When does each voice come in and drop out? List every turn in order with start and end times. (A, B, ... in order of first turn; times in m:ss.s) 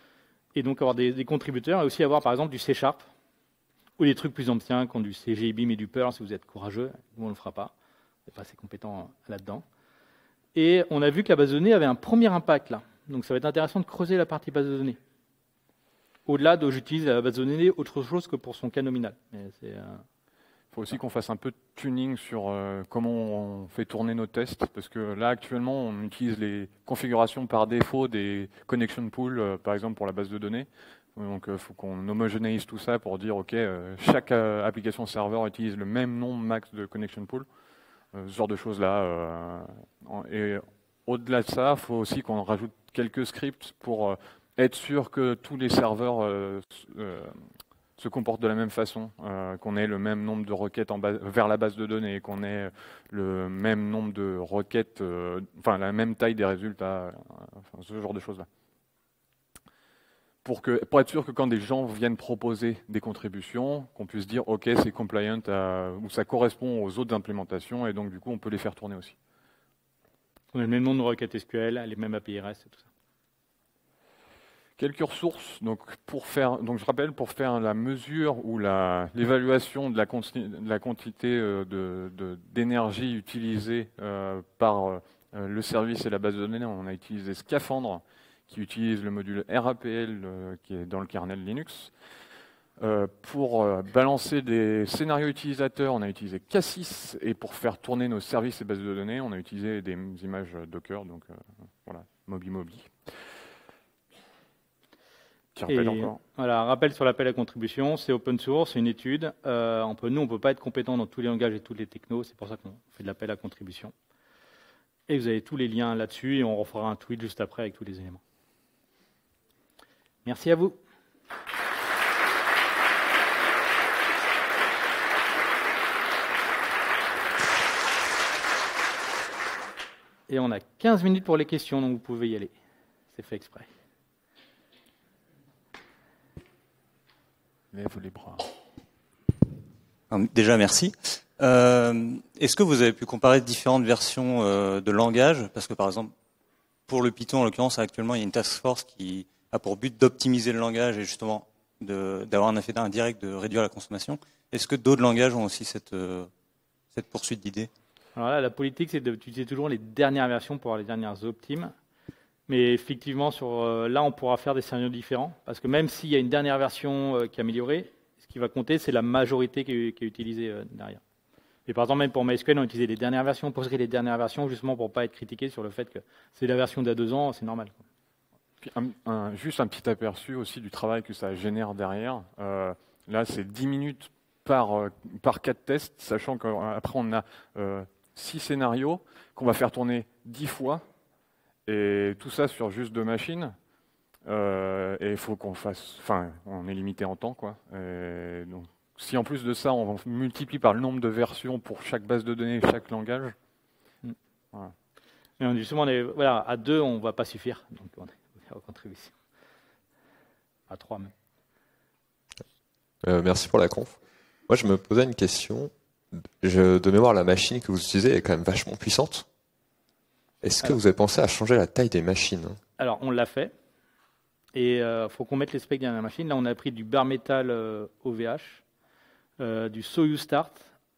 0:00.5-0:03.1 A
0:04.0-0:07.7 A
0:08.3-0:09.6 A
0:10.5-0:15.0 A
0:16.2-0:20.0 A
0:20.7-0:37.4 B
0:38.1-0:47.4 B
0:48.0-0:58.5 B
1:00.4-1:09.1 B
1:10.5-1:12.8 A
1:14.8-1:31.9 B
1:32.8-1:42.9 B
1:45.5-1:46.2 B
1:45.7-1:53.9 A
1:55.1-1:58.2 A
2:00.2-2:00.8 A
2:10.3-2:12.5 A
2:13.1-2:13.7 A
2:17.7-2:18.5 B
2:20.1-2:26.1 C
2:26.9-2:36.3 C
2:36.9-2:37.7 C
2:38.1-2:41.7 A
2:42.5-2:51.0 A
2:51.6-2:57.8 A
2:58.6-3:10.8 B
3:11.7-3:13.6 B
3:14.2-3:23.3 B
3:25.4-3:29.1 A
3:30.7-3:31.1 A
3:33.0-3:39.2 D
3:40.4-3:42.6 D
3:42.8-3:43.5 A
3:44.5-3:48.6 A
3:49.4-3:50.7 A